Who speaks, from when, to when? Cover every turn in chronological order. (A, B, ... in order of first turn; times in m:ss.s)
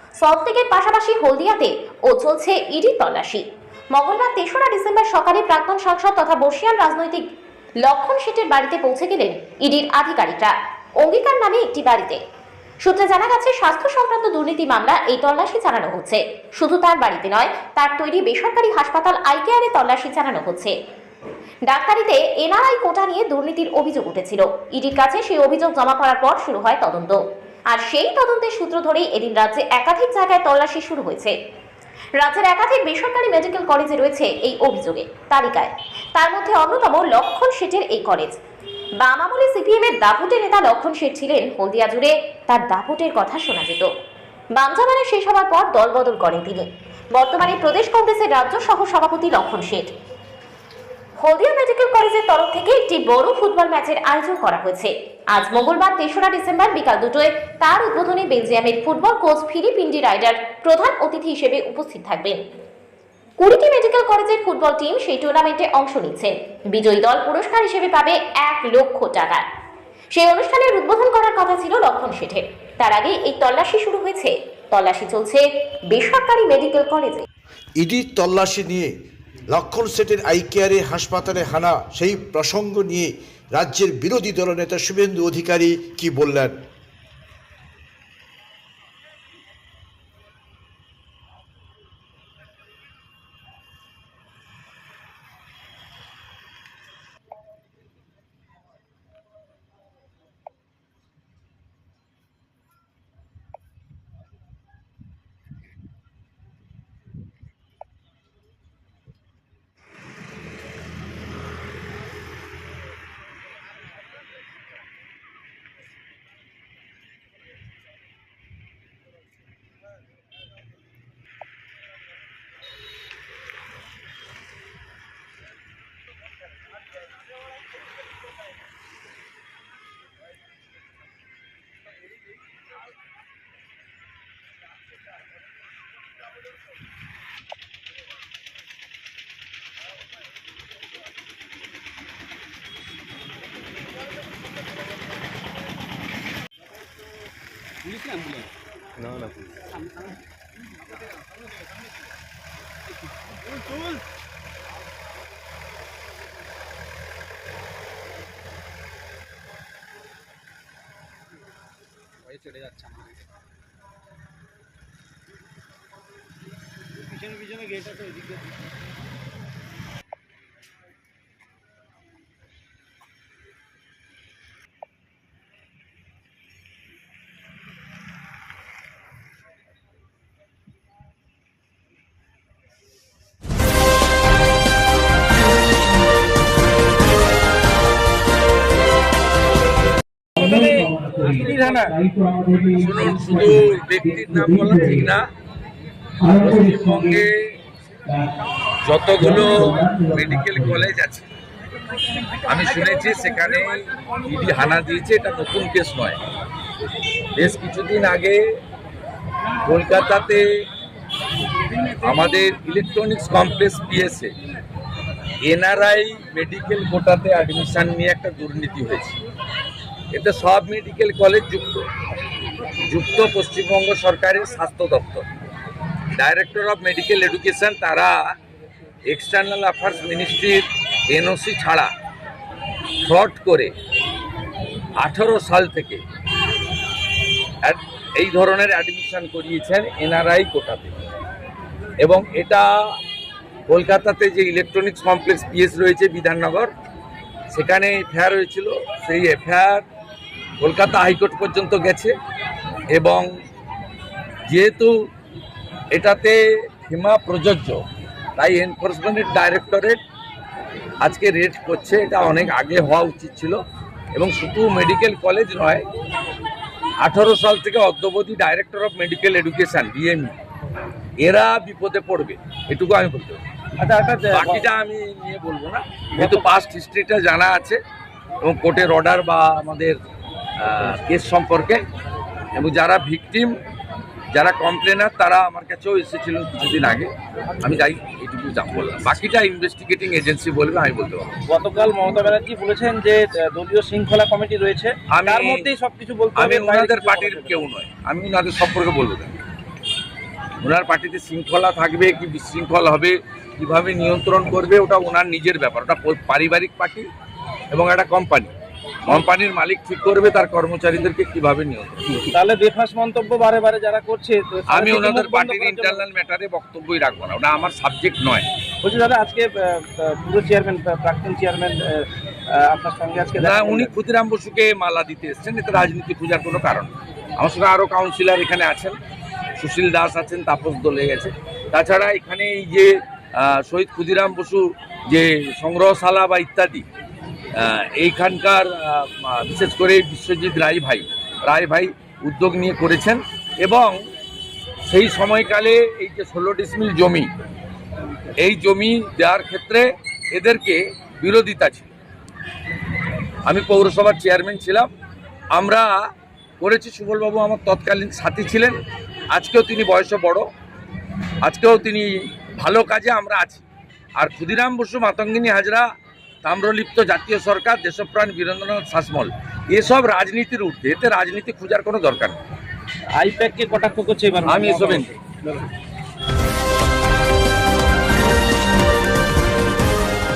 0:00.2-0:07.2 A
0:07.8-0:12.2 A
0:12.8-0:20.7 A
0:21.7-0:27.2 A
0:27.7-0:31.3 A
0:32.2-0:38.4 A
0:39.0-0:43.9 A
0:44.6-0:49.9 A
0:51.2-1:02.4 A
1:03.4-1:09.4 A
1:10.1-1:17.2 A
1:17.8-1:18.9 B
1:19.5-1:26.6 B
2:42.5-2:42.8 C
2:47.4-2:48.0 C
3:10.4-3:11.0 D
3:11.2-3:12.2 C
3:11.2-3:12.4 E
3:12.7-3:15.3 D
3:16.2-3:17.3 D
3:18.8-3:21.3 D
3:22.5-3:26.2 D
3:27.4-3:28.4 D
3:29.6-3:30.4 D
3:32.0-3:34.3 D
3:35.4-3:39.2 D
3:40.1-3:41.9 D
3:42.9-3:45.3 D
3:46.1-3:48.3 D
3:49.1-3:51.9 D
3:53.1-3:53.7 D
3:55.0-3:56.0 D
3:57.6-4:01.0 D
4:02.0-4:03.0 D
4:03.7-4:06.7 D
4:07.5-4:09.9 D
4:10.6-4:12.1 D
4:12.9-4:13.3 D
4:14.5-4:14.9 D
4:15.9-4:17.8 D
4:18.4-4:20.0 D
4:21.0-4:23.6 D
4:24.1-4:25.8 D
4:27.0-4:30.3 D
4:31.2-4:33.4 D
4:33.8-4:34.6 E
4:34.3-4:37.8 D
4:38.4-4:40.0 D
4:40.6-4:41.8 D
4:42.5-4:43.6 D
4:44.3-4:47.1 D
4:47.6-4:51.4 D
4:51.5-4:57.5 E
4:55.1-4:55.7 D
4:56.3-4:59.3 D
5:00.6-5:07.1 D
5:07.7-5:08.5 D
5:09.0-5:12.3 D
5:12.4-5:15.8 E
5:14.7-5:18.5 D
5:18.9-5:19.3 C
5:18.9-5:19.4 E
5:20.2-5:21.7 E
5:22.8-5:23.6 E
5:23.4-5:29.0 D
5:29.6-5:36.9 D
5:37.6-5:44.0 D
5:44.9-5:47.3 D
5:48.4-5:51.9 D
5:53.4-5:54.9 D
5:55.6-5:58.8 D
5:59.3-6:00.5 D
6:01.4-6:03.6 D
6:04.2-6:05.9 D
6:06.4-6:12.4 D
6:13.2-6:13.6 C
6:13.3-6:15.1 E
6:14.4-6:15.1 D